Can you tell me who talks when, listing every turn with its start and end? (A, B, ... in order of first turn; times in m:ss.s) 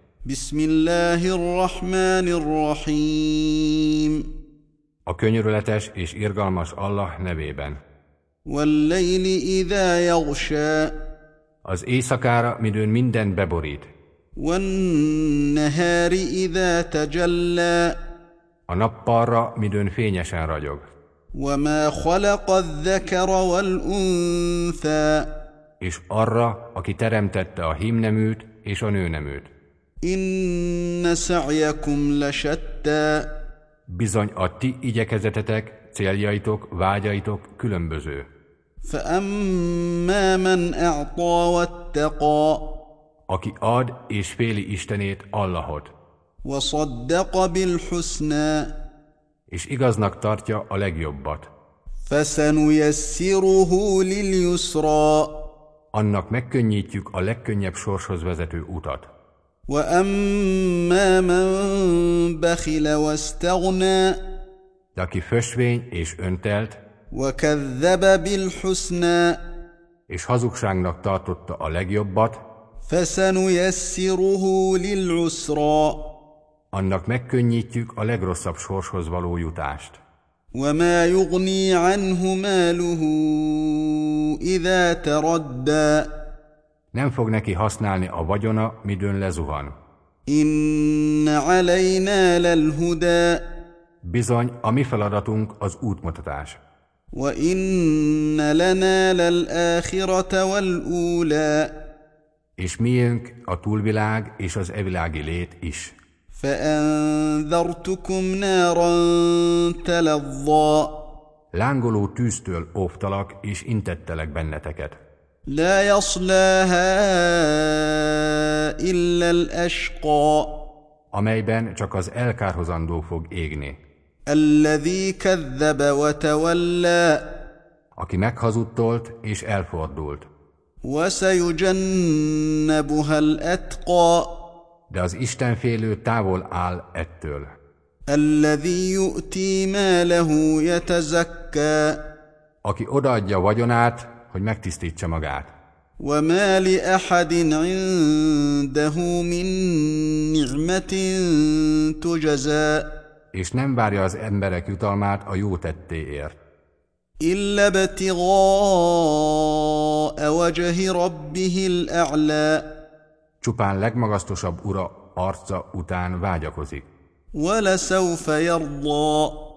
0:00.2-0:04.2 A
0:05.0-0:07.8 B
0:08.4-0:10.9 A
0:11.6-0:13.9 B
0:14.4-0:18.0 A
0:18.7-0:20.8 B
0:21.3-0:25.3 A
0:25.8-0:29.5 B
0:30.0-0:33.3 A
0:33.9-0:38.3 B
0:38.8-0:42.7 A
0:43.3-0:45.9 B
0:46.4-0:48.7 A
0:49.5-0:51.5 B
0:52.1-0:55.3 A
0:55.9-0:59.1 B
0:59.7-1:04.2 A
1:04.9-1:06.8 B
1:07.1-1:09.4 A
1:10.1-1:12.4 B
1:12.9-1:16.0 A
1:16.7-1:20.0 B
1:20.6-1:26.1 A
1:26.9-1:29.7 B
1:30.3-1:33.4 A
1:34.0-1:36.6 B
1:37.1-1:41.7 A
1:42.6-1:45.9 B
1:46.3-1:50.9 A
1:51.5-1:55.0 B
1:55.5-2:00.5 A
2:01.1-2:03.8 B
2:04.3-2:07.2 A
2:08.0-2:10.3 B
2:10.8-2:14.3 A
2:14.9-2:17.5 B
2:18.1-2:22.0 A
2:22.6-2:25.5 B
2:26.0-2:32.9 A
2:33.3-2:36.4 B
2:37.2-2:42.7 A
2:43.4-2:46.9 B
2:47.4-2:49.3 A